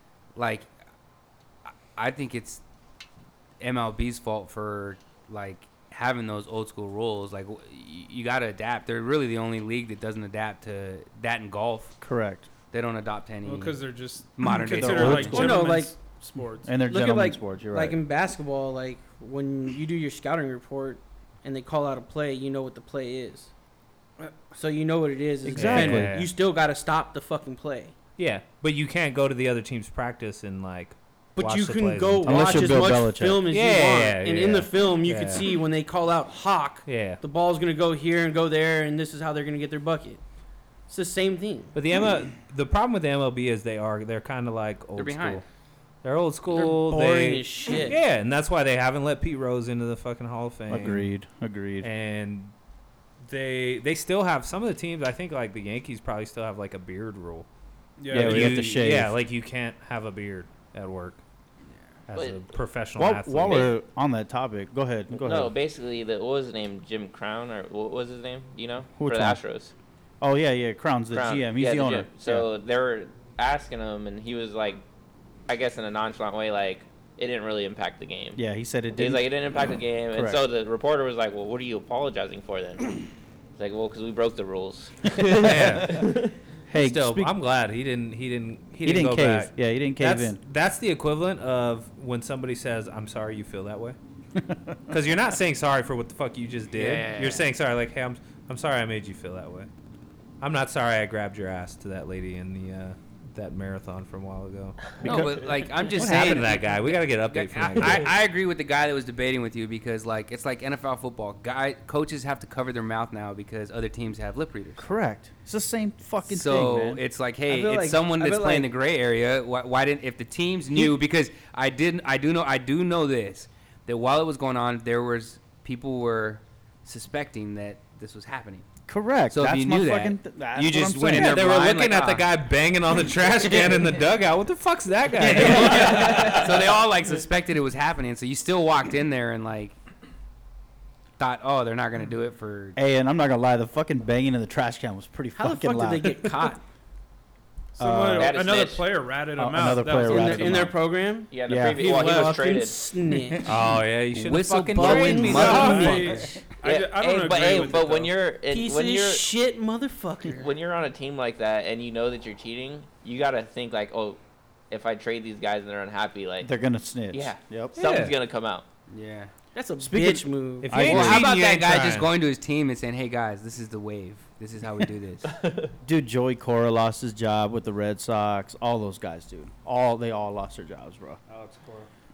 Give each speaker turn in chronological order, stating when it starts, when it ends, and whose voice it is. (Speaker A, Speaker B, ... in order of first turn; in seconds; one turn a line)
Speaker A: 0.3-0.7
Speaker A: 1.9-2.6
Speaker A: 3.6-11.9
Speaker B: 12.0-12.5
Speaker A: 12.7-13.8
Speaker C: 13.4-16.8
Speaker A: 14.3-15.6
Speaker B: 14.7-15.7
Speaker D: 15.3-16.0
Speaker B: 16.6-18.0
Speaker D: 16.9-23.5
Speaker D: 24.5-27.9
Speaker B: 25.4-26.2
Speaker E: 25.5-26.3
Speaker E: 28.2-33.0
Speaker D: 31.4-40.2
Speaker B: 32.2-33.4
Speaker E: 33.5-35.5
Speaker E: 36.9-37.2
Speaker D: 40.9-41.7
Speaker E: 41.7-45.4
Speaker A: 45.0-45.4
Speaker E: 46.0-51.1
Speaker D: 46.5-48.0
Speaker B: 50.7-51.9
Speaker E: 51.8-52.5
Speaker E: 53.2-57.5
Speaker C: 58.0-58.8
Speaker E: 58.1-61.2
Speaker B: 58.1-59.1
Speaker E: 62.1-63.7
Speaker F: 62.1-62.4
Speaker B: 63.0-65.5
Speaker F: 65.1-69.7
Speaker B: 69.0-69.4
Speaker B: 70.2-72.5
Speaker F: 71.1-74.8
Speaker F: 75.5-78.4
Speaker B: 78.3-79.3
Speaker F: 78.9-83.0
Speaker B: 80.1-80.4
Speaker F: 83.6-85.5
Speaker B: 85.2-86.1
Speaker E: 85.3-86.2
Speaker B: 86.7-87.3
Speaker E: 86.7-94.0
Speaker B: 88.8-90.4
Speaker B: 94.3-94.8
Speaker E: 94.9-99.7
Speaker A: 96.7-97.5
Speaker E: 100.4-104.9
Speaker B: 105.0-106.6
Speaker A: 105.0-114.8
Speaker E: 105.9-108.1
Speaker B: 114.8-117.0
Speaker A: 116.2-128.7
Speaker D: 117.5-118.7
Speaker B: 128.9-131.4
Speaker A: 129.3-132.3
Speaker E: 131.1-136.4
Speaker A: 135.2-139.8
Speaker A: 141.2-142.8
Speaker B: 142.8-146.4
Speaker D: 145.3-146.6
Speaker C: 147.7-150.7
Speaker B: 147.8-148.5
Speaker F: 148.2-148.9
Speaker B: 149.3-150.8
Speaker D: 150.0-153.5
Speaker F: 151.3-152.9
Speaker B: 151.5-152.3
Speaker C: 151.8-152.5
Speaker E: 153.4-156.2
Speaker A: 154.1-156.2
Speaker D: 154.7-156.2
Speaker C: 155.3-158.2
Speaker F: 156.6-159.3
Speaker D: 158.5-160.6
Speaker F: 160.3-164.2
Speaker F: 164.7-166.5
Speaker B: 166.4-167.8
Speaker F: 167.1-168.6
Speaker E: 167.8-168.2
Speaker A: 168.9-169.3
Speaker D: 169.5-170.8
Speaker B: 169.8-171.3
Speaker E: 170.6-172.1
Speaker A: 170.8-175.3
Speaker B: 175.8-181.2
Speaker C: 181.3-181.9